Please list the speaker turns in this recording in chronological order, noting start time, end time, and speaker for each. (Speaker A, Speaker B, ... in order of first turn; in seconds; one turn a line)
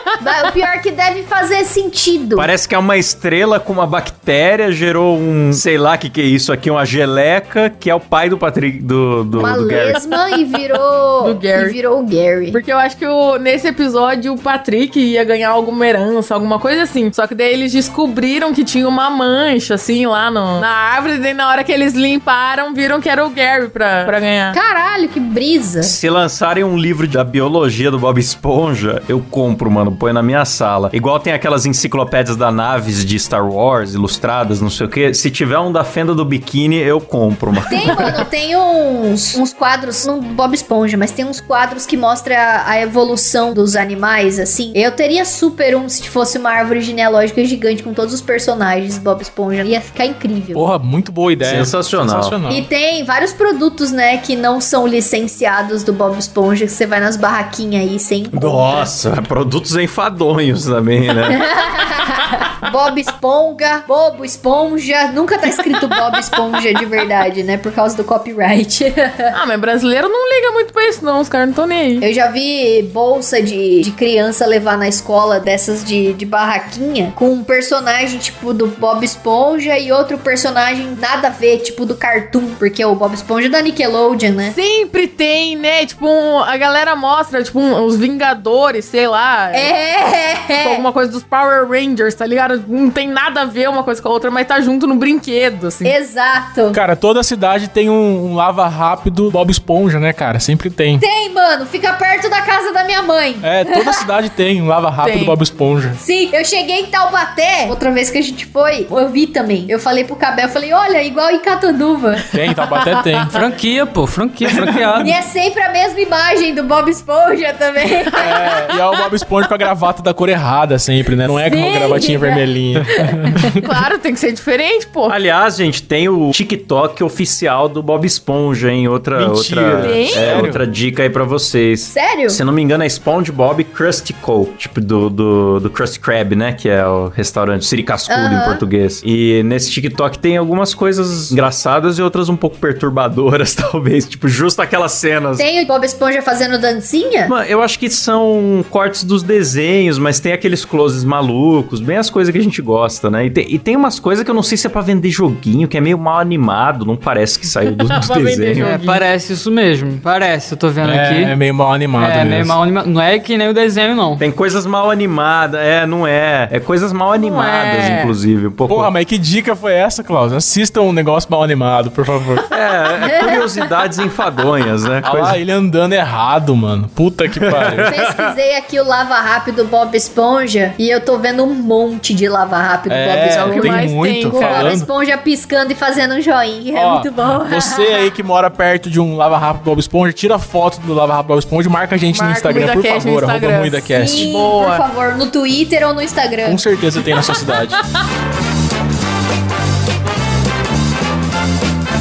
Speaker A: 0.2-2.5
Speaker B: 2.4-10.1
Speaker A: 9.3-12.6
Speaker C: 11.2-11.8
Speaker C: 12.5-24.6
Speaker A: 24.5-26.0
Speaker B: 25.8-38.1
Speaker A: 37.7-50.7
Speaker D: 50.5-52.7
Speaker B: 51.4-52.4
Speaker A: 52.5-58.9
Speaker B: 58.3-61.4
Speaker A: 61.3-69.3
Speaker C: 69.3-72.1
Speaker A: 72.0-84.5
Speaker C: 84.5-89.7
Speaker A: 89.5-90.8
Speaker C: 90.6-96.0
Speaker A: 95.8-96.8
Speaker D: 96.7-101.0
Speaker A: 101.0-104.0
Speaker D: 103.4-106.0
Speaker C: 105.0-105.4
Speaker A: 106.0-112.2
Speaker D: 112.3-113.4
Speaker C: 112.9-113.3
Speaker E: 113.3-115.1
Speaker D: 114.5-115.0
Speaker A: 115.0-118.5
Speaker D: 118.2-123.6
Speaker C: 118.3-118.7
Speaker A: 121.5-123.6
Speaker C: 123.6-125.2
Speaker B: 125.1-145.5
Speaker D: 129.2-130.6
Speaker C: 129.8-130.5
Speaker A: 131.9-132.4
Speaker A: 138.1-138.6
Speaker A: 145.4-147.3
Speaker B: 147.3-158.7
Speaker C: 157.8-159.0
Speaker E: 158.6-161.4
Speaker D: 160.8-162.6
Speaker E: 162.0-164.2
Speaker B: 164.2-168.9
Speaker C: 167.2-168.1
Speaker D: 168.7-172.4
Speaker B: 172.5-175.4
Speaker A: 173.0-173.4
Speaker D: 175.0-177.9
Speaker B: 177.4-178.4
Speaker A: 177.8-188.1
Speaker D: 182.9-184.9
Speaker C: 183.3-184.8
Speaker D: 186.7-194.3
Speaker C: 192.1-194.8
Speaker A: 193.9-196.6
Speaker D: 196.4-197.8